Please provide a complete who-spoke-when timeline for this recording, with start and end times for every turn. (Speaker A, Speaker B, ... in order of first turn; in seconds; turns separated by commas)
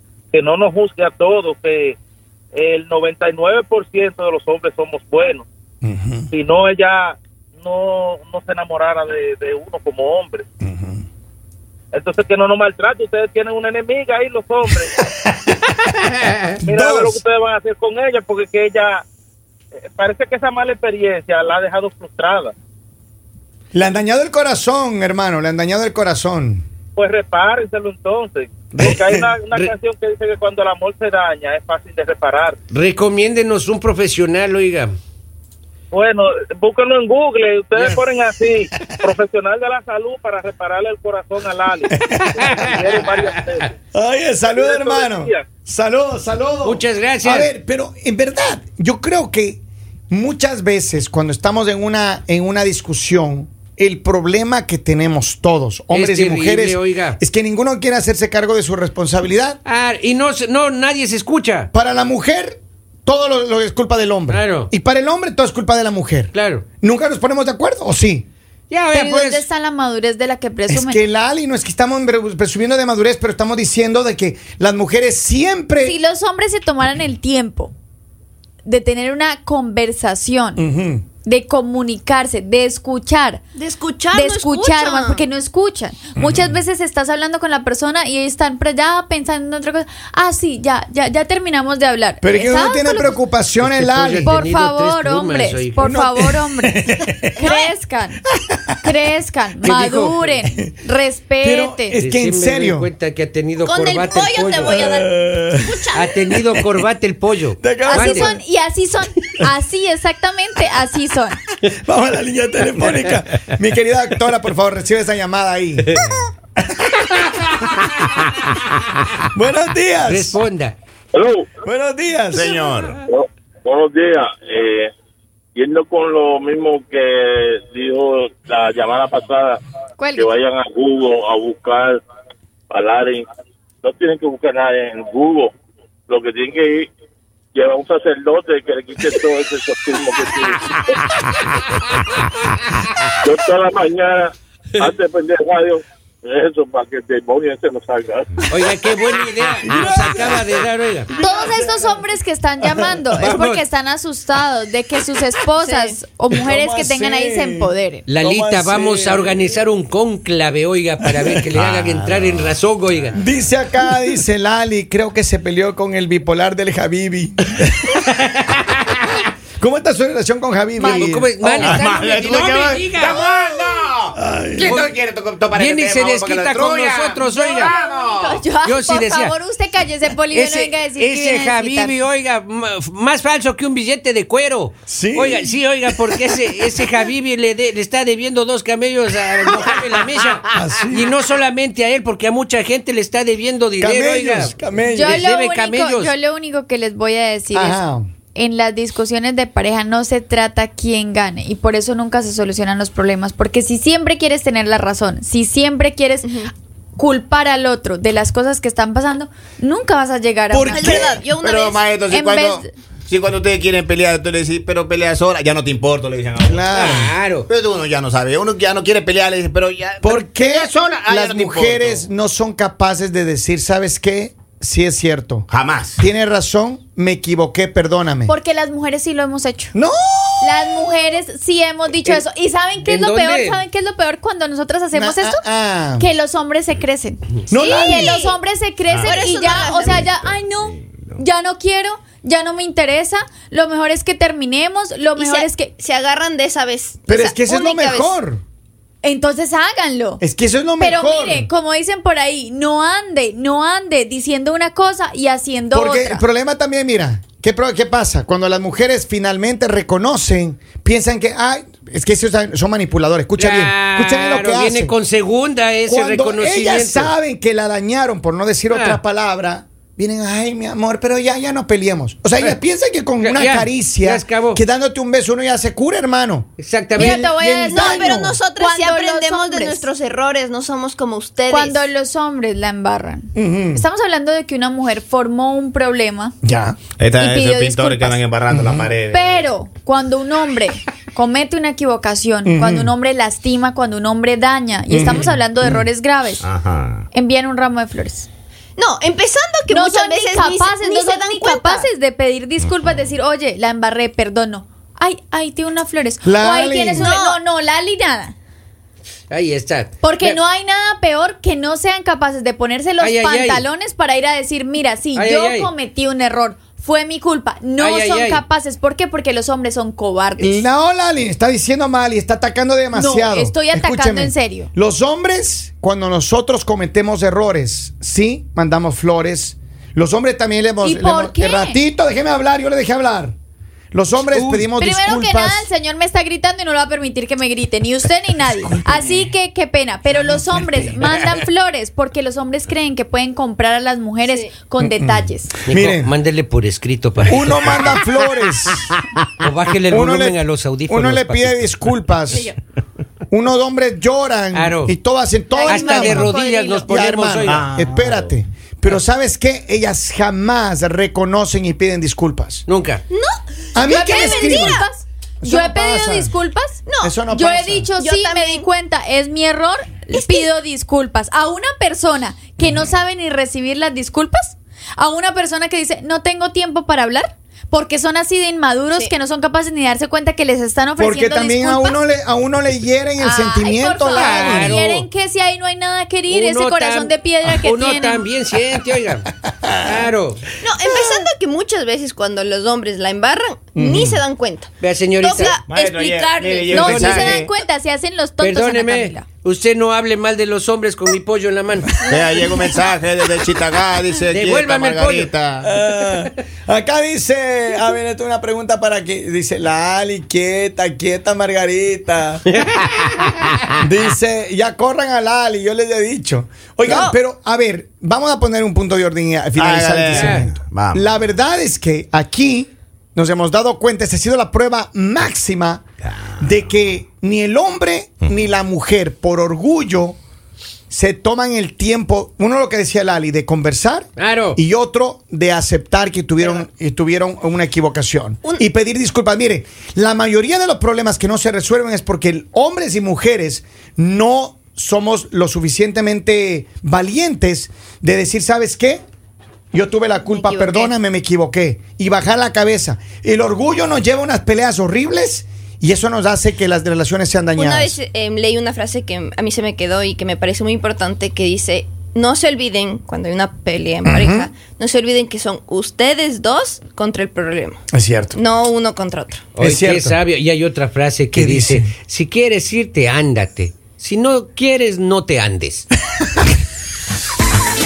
Speaker A: 0.3-2.0, Speaker A: 2.5-5.5, Speaker B: 5.8-6.3, Speaker A: 6.3-10.4, Speaker B: 10.6-11.0, Speaker A: 11.9-15.0, Speaker C: 15.8-16.6, Speaker B: 16.6-17.2, Speaker A: 16.6-19.0, Speaker A: 19.8-22.5, Speaker B: 23.7-26.6, Speaker A: 26.9-32.6, Speaker B: 28.8-29.3, Speaker C: 32.7-34.9, Speaker A: 35.9-43.7, Speaker C: 37.8-38.1, Speaker B: 41.9-42.7, Speaker C: 42.4-43.6, Speaker B: 43.9-59.6, Speaker A: 44.5-45.5, Speaker C: 46.6-47.5, Speaker C: 55.9-57.2, Speaker C: 59.6-61.7, Speaker B: 61.7-68.3, Speaker C: 64.3-64.7, Speaker C: 66.3-66.6, Speaker C: 68.7-69.5, Speaker D: 68.9-71.0, Speaker B: 70.7-76.0, Speaker D: 75.8-77.7, Speaker D: 78.6-80.6, Speaker B: 80.5-81.0, Speaker D: 81.2-83.4, Speaker E: 83.5-85.2, Speaker D: 84.1-93.2, Speaker B: 86.2-86.6, Speaker B: 92.2-94.3, Speaker C: 93.6-95.8, Speaker D: 94.2-96.8, Speaker B: 95.8-97.5, Speaker D: 97.3-98.2, Speaker B: 98.4-98.9, Speaker D: 98.8-102.0, Speaker C: 99.6-100.3, Speaker B: 101.4-102.9, Speaker C: 101.9-104.9, Speaker E: 103.6-106.1, Speaker B: 104.7-105.8, Speaker C: 105.9-108.3, Speaker B: 106.4-106.8, Speaker B: 107.6-108.4, Speaker D: 107.8-111.4, Speaker B: 111.7-116.0, Speaker C: 115.9-116.2, Speaker B: 119.3-120.4, Speaker C: 120.0-120.7, Speaker F: 121.2-121.5, Speaker B: 121.6-122.6, Speaker G: 122.3-123.0, Speaker F: 123.1-124.9, Speaker F: 125.5-129.6, Speaker D: 130.0-130.3, Speaker F: 130.2-132.0, Speaker F: 132.7-133.2, Speaker F: 133.8-135.5, Speaker F: 136.1-136.9, Speaker F: 137.5-140.5, Speaker F: 143.2-148.2, Speaker C: 148.5-151.1, Speaker B: 149.6-152.0, Speaker D: 151.2-158.1, Speaker B: 152.6-153.0, Speaker C: 153.2-153.6, Speaker E: 155.6-156.0, Speaker B: 156.3-159.6, Speaker C: 158.1-163.2, Speaker B: 161.0-161.4, Speaker G: 161.5-163.1, Speaker B: 163.1-167.9, Speaker C: 168.2-168.5, Speaker B: 169.6-171.9, Speaker C: 170.8-173.2, Speaker D: 170.8-171.1, Speaker G: 171.6-178.4, Speaker D: 173.4-173.6, Speaker B: 174.2-174.8, Speaker C: 174.6-174.9, Speaker C: 175.5-177.7, Speaker D: 177.2-182.0, Speaker C: 178.6-179.3, Speaker C: 180.3-196.1, Speaker B: 184.9-186.8, Speaker B: 190.5-191.1, Speaker B: 193.8-195.2, Speaker D: 194.9-197.8, Speaker B: 197.5-198.1, Speaker D: 198.3-206.3, Speaker E: 206.2-206.5, Speaker D: 207.0-211.1, Speaker B: 210.5-211.2, Speaker E: 210.7-211.8, Speaker G: 211.3-222.1, Speaker D: 212.1-212.7, Speaker B: 216.4-217.1, Speaker C: 216.7-217.5, Speaker B: 220.0-225.5, Speaker G: 225.5-226.0, Speaker B: 226.0-228.3, Speaker D: 228.3-229.7, Speaker B: 229.7-230.9, Speaker D: 230.4-235.4, Speaker C: 232.8-233.6, Speaker B: 234.9-236.1, Speaker D: 236.0-245.7, Speaker B: 237.5-238.2, Speaker E: 237.6-238.4, Speaker G: 238.9-241.2, Speaker E: 239.0-240.0, Speaker E: 245.1-248.2, Speaker B: 247.1-248.4, Speaker D: 249.0-250.2, Speaker B: 250.2-251.5, Speaker D: 250.8-256.2, Speaker B: 255.7-264.9, Speaker C: 263.4-267.1, Speaker B: 265.9-278.4, Speaker C: 268.7-269.0, Speaker C: 273.2-274.6, Speaker C: 276.6-277.2, Speaker D: 277.0-279.9, Speaker E: 277.6-281.8, Speaker D: 281.5-286.3, Speaker B: 283.3-283.9, Speaker B: 286.4-286.8, Speaker G: 287.0-289.4, Speaker D: 287.2-288.2, Speaker B: 288.5-288.9, Speaker D: 289.1-296.4, Speaker B: 292.4-292.9, Speaker B: 294.9-295.9, Speaker G: 296.4-297.0, Speaker D: 297.1-298.3, Speaker E: 298.8-301.9, Speaker D: 299.7-308.3, Speaker B: 306.2-307.1, Speaker E: 306.9-307.4, Speaker C: 309.3-310.4, Speaker D: 310.0-320.7, Speaker C: 313.0-313.6, Speaker C: 315.1-315.7, Speaker C: 317.8-318.4, Speaker B: 320.4-333.3, Speaker D: 322.9-324.7, Speaker D: 330.8-331.8, Speaker B: 333.9-335.7, Speaker C: 334.1-334.7, Speaker D: 334.8-345.5, Speaker B: 338.4-339.3, Speaker B: 340.1-341.0, Speaker E: 344.2-344.5, Speaker B: 344.8-346.1, Speaker C: 345.7-348.1, Speaker B: 347.2-348.9, Speaker C: 349.4-351.9, Speaker B: 349.9-352.5, Speaker E: 352.3-352.5, Speaker B: 353.3-362.6, Speaker C: 354.5-354.9, Speaker E: 355.6-356.8, Speaker C: 355.6-357.6, Speaker G: 357.4-358.3, Speaker C: 362.7-363.0, Speaker E: 363.1-364.9, Speaker B: 363.7-364.9, Speaker D: 363.8-382.0, Speaker B: 365.4-366.3, Speaker E: 366.9-367.2, Speaker B: 367.0-367.9, Speaker E: 368.0-368.6, Speaker E: 370.1-370.5, Speaker B: 372.6-372.9, Speaker B: 381.0-384.8, Speaker D: 383.2-388.2, Speaker C: 384.1-385.1, Speaker C: 386.3-390.5, Speaker B: 389.5-389.9, Speaker E: 390.6-396.9, Speaker B: 393.7-394.2, Speaker C: 394.8-395.6, Speaker G: 395.6-397.5, Speaker D: 396.7-399.2, Speaker C: 396.7-397.3, Speaker C: 398.4-402.1, Speaker G: 402.1-405.7, Speaker E: 402.1-402.9, Speaker C: 404.3-405.3, Speaker B: 405.6-412.4, Speaker C: 405.9-406.3, Speaker C: 412.5-413.5, Speaker B: 413.8-425.8, Speaker E: 416.8-417.1, Speaker G: 419.6-421.1, Speaker C: 420.1-420.5, Speaker B: 426.4-430.2, Speaker B: 430.9-449.0, Speaker C: 434.2-434.6, Speaker B: 449.7-458.0, Speaker E: 450.3-450.9, Speaker E: 457.6-467.8, Speaker B: 464.0-464.5, Speaker B: 467.9-468.4, Speaker E: 468.3-469.5, Speaker C: 469.5-475.9, Speaker B: 469.6-470.2, Speaker B: 471.3-471.9